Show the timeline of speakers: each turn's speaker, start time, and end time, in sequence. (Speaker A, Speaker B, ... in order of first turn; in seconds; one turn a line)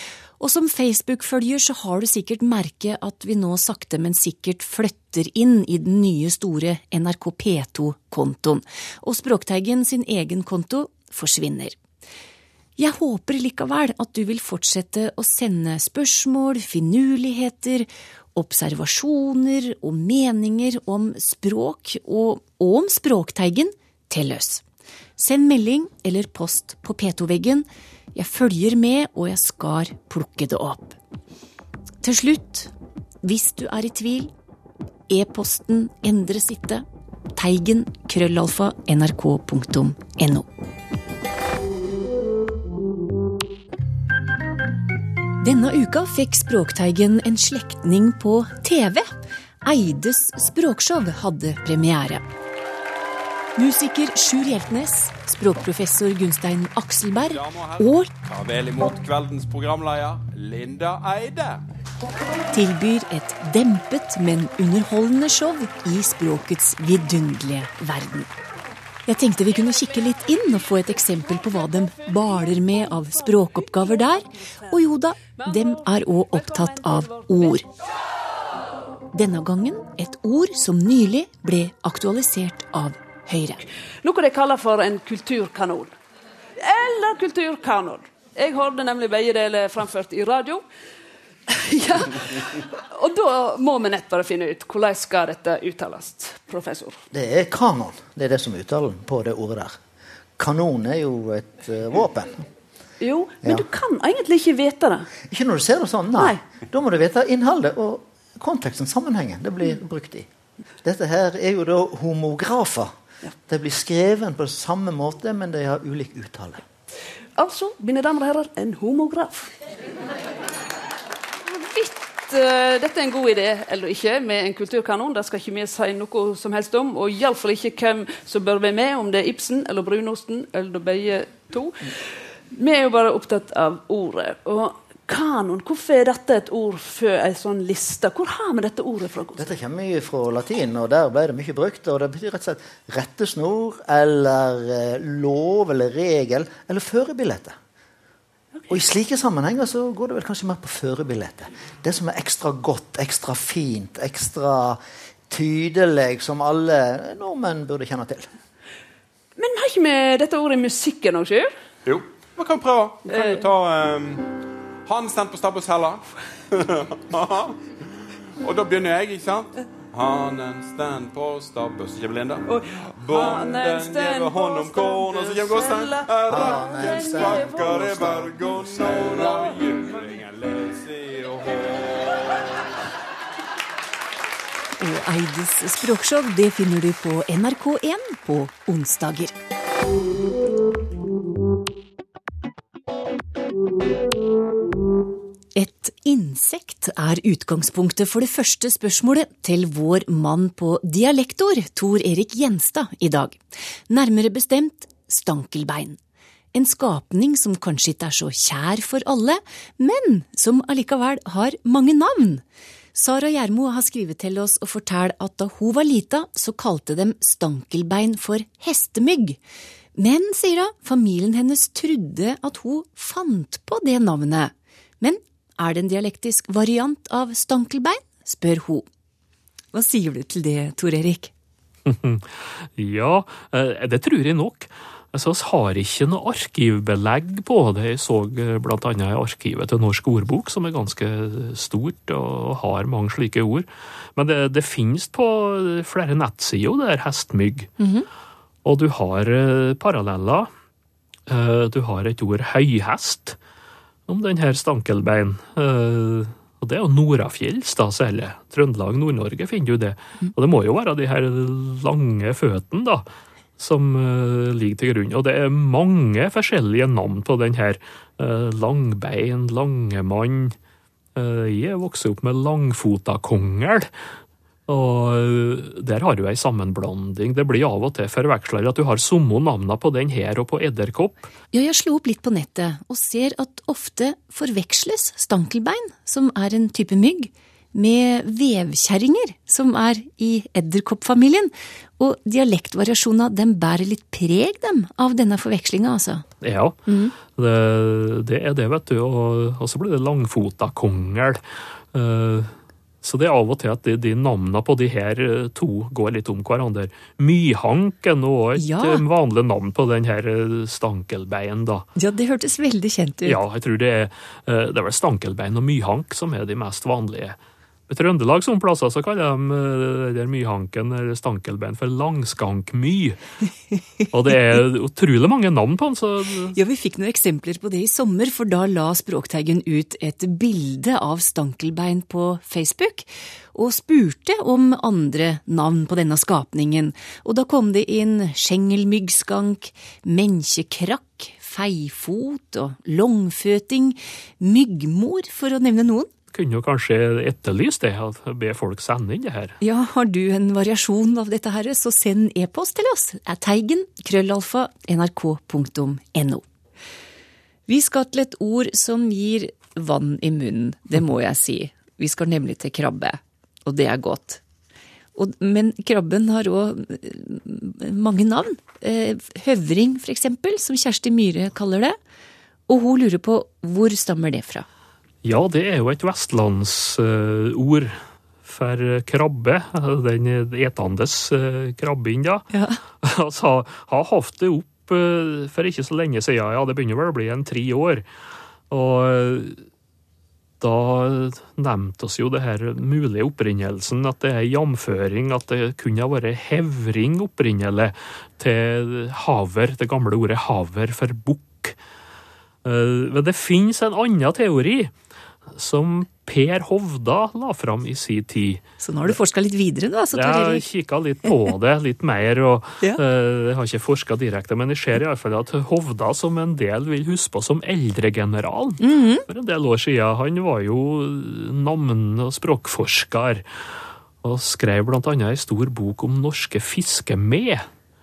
Speaker A: 0.4-11.8
Speaker A: 12.8-24.6
Speaker A: 25.2-31.0
Speaker A: 32.0-32.7
Speaker A: 33.2-34.3
Speaker A: 35.1-36.8
Speaker A: 37.4-40.5
Speaker A: 45.4-49.1
Speaker A: 49.6-52.2
Speaker A: 53.5-58.1
Speaker B: 57.3-61.6
Speaker A: 62.5-68.3
Speaker A: 69.1-77.7
Speaker C: 71.3-74.1
Speaker C: 75.3-77.6
Speaker A: 79.1-83.6
Speaker C: 84.0-85.9
Speaker C: 86.6-90.6
Speaker C: 91.5-97.0
Speaker D: 97.1-99.8
Speaker D: 100.4-102.4
Speaker C: 103.0-105.1
Speaker D: 105.3-110.3
Speaker C: 106.2-106.4
Speaker D: 110.8-112.9
Speaker D: 113.5-116.6
Speaker C: 117.3-119.5
Speaker C: 121.4-131.8
Speaker C: 132.5-139.5
Speaker D: 139.4-147.6
Speaker D: 148.7-158.3
Speaker C: 159.4-161.5
Speaker B: 161.8-164.2
Speaker C: 163.1-163.5
Speaker B: 164.8-167.6
Speaker B: 168.4-182.3
Speaker C: 172.4-178.0
Speaker D: 176.2-179.3
Speaker C: 178.9-179.3
Speaker A: 184.8-189.3
Speaker A: 195.5-203.4
Speaker A: 203.9-206.0
Speaker A: 206.5-212.4
Speaker A: 212.9-219.4
Speaker A: 219.9-228.8
Speaker A: 229.7-231.3
Speaker E: 231.8-247.7
Speaker A: 247.8-248.1
Speaker E: 248.6-250.5
Speaker E: 251.3-253.4
Speaker E: 254.1-263.1
Speaker E: 263.6-270.5
Speaker E: 271.1-273.9
Speaker E: 274.7-281.2
Speaker A: 281.5-296.2
Speaker E: 296.4-301.4
Speaker A: 296.9-297.1
Speaker E: 301.9-311.9
Speaker A: 308.6-309.0
Speaker A: 311.9-313.4
Speaker E: 313.2-317.4
Speaker E: 317.9-323.2
Speaker E: 324.1-326.6
Speaker A: 326.5-346.1
Speaker E: 346.3-349.6
Speaker A: 349.6-356.4
Speaker A: 357.7-364.4
Speaker A: 365.1-372.0
Speaker A: 372.7-374.6
Speaker E: 375.2-382.5
Speaker A: 382.5-382.8
Speaker E: 383.0-388.0
Speaker E: 388.7-389.6
Speaker E: 390.6-401.8
Speaker E: 402.6-404.9
Speaker E: 405.5-409.1
Speaker A: 408.8-410.6
Speaker E: 410.1-423.4
Speaker A: 418.8-419.2
Speaker E: 424.2-427.7